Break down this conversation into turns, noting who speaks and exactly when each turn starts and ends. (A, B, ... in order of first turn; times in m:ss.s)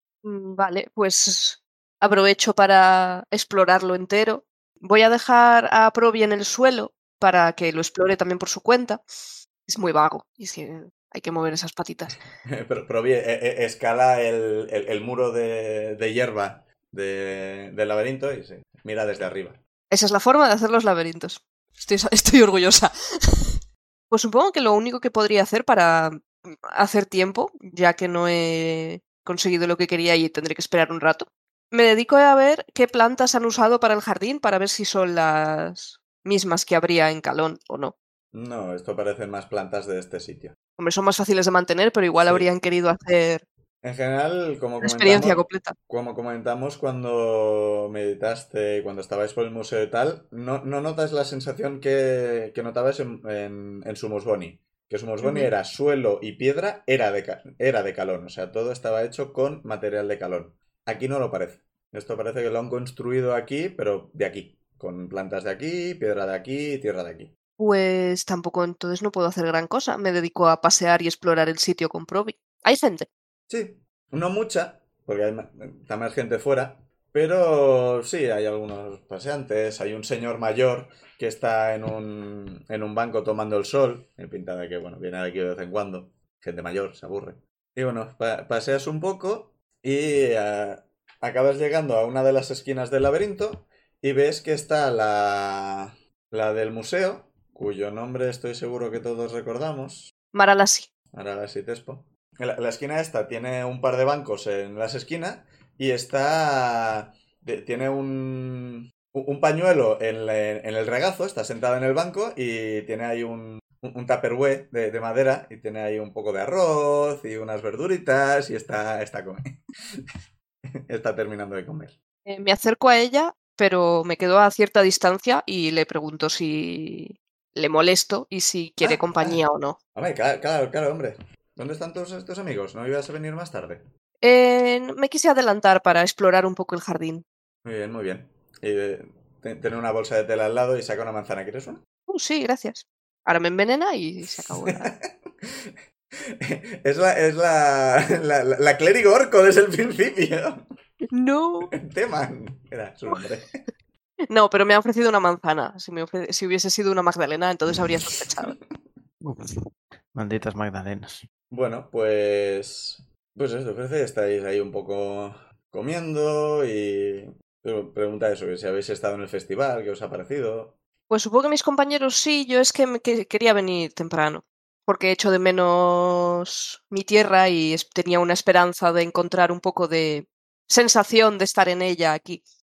0:00.2-0:12.2 A
0:12.4-0:19.6 B
0:19.9-0:23.6 A
0:24.1-0:38.0 A
0:38.3-0:40.6 B
0:40.8-0:43.4 A
0:42.2-0:42.5 B
0:43.8-1:07.3 B
0:44.8-0:45.8 A
0:55.2-0:55.5 A
1:07.6-1:13.1 A
1:13.5-1:40.1 B
1:40.3-1:40.9 A
1:41.1-2:00.0 B
2:00.9-2:02.0 B
2:02.3-2:09.8 A
2:08.8-2:09.4 B
2:10.0-2:13.8 B
2:14.2-2:17.2 A
2:17.6-2:21.8 B
2:22.1-2:24.9 A
2:24.3-2:30.7 B
2:31.1-2:31.8 A
2:31.7-2:33.6 B
2:34.3-2:38.6 A
2:38.1-2:38.6 B
2:39.2-2:41.3 C
2:41.5-2:50.8 B
2:51.1-3:02.4 A